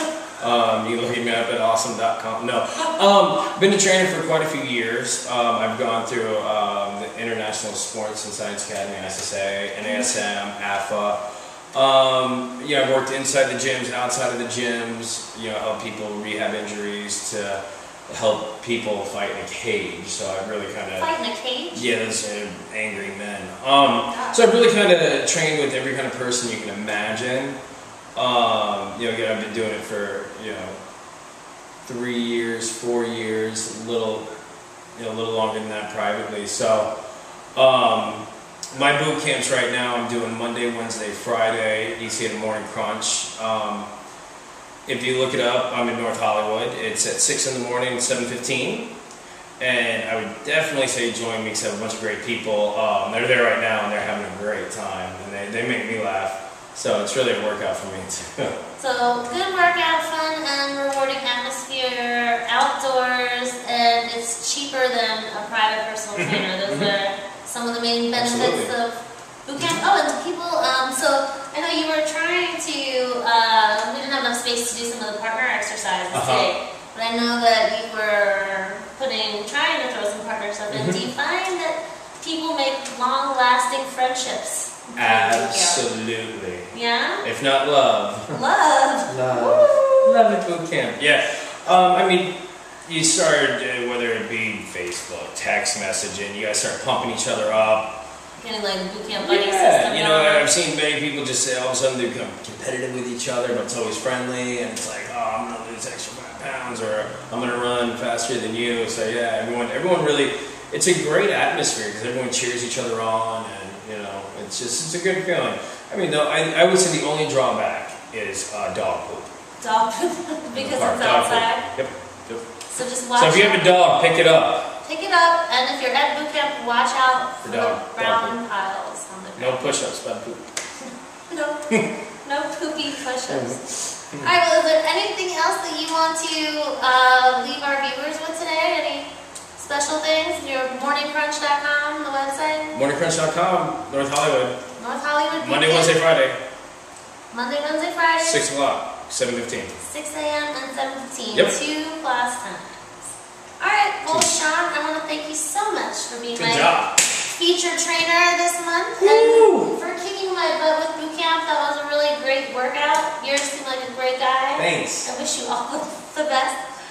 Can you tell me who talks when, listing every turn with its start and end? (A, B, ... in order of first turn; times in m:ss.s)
0:00.4-0:21.1 A
0:09.9-0:10.1 B
0:21.0-0:21.8 B
0:21.8-0:27.6 A
0:24.1-0:24.6 B
0:28.2-0:30.8 A
0:31.8-0:34.3 A
0:35.0-0:36.9 A
0:37.6-0:43.9 A
0:44.9-0:48.9 A
0:49.6-0:58.6 A
0:58.8-1:25.8 B
1:06.2-1:06.9 A
1:08.2-1:08.7 A
1:09.6-1:09.9 A
1:16.1-1:16.5 A
1:20.7-1:21.1 A
1:25.0-1:26.7 A
1:26.7-1:27.2 B
1:27.2-1:28.4 A
1:28.3-1:29.8 B
1:29.1-1:32.3 A
1:32.9-1:37.9 A
1:38.4-1:40.5 B
1:39.1-1:59.3 A
1:59.6-2:01.7 B
2:00.6-2:02.4 A
2:02.7-2:03.7 B
2:03.2-2:04.7 A
2:04.8-2:09.6 B
2:07.4-2:08.4 A
2:09.4-2:10.4 A
2:11.3-2:11.7 B
2:12.2-2:13.6 B
2:13.3-2:14.3 A
2:14.2-2:22.8 B
2:22.7-2:24.6 A
2:24.8-2:26.0 B
2:25.4-2:26.4 A
2:27.3-2:28.4 B
2:28.2-2:29.8 A
2:29.8-2:46.6 B
2:36.4-2:37.0 A
2:39.0-2:39.7 A
2:44.6-2:45.1 A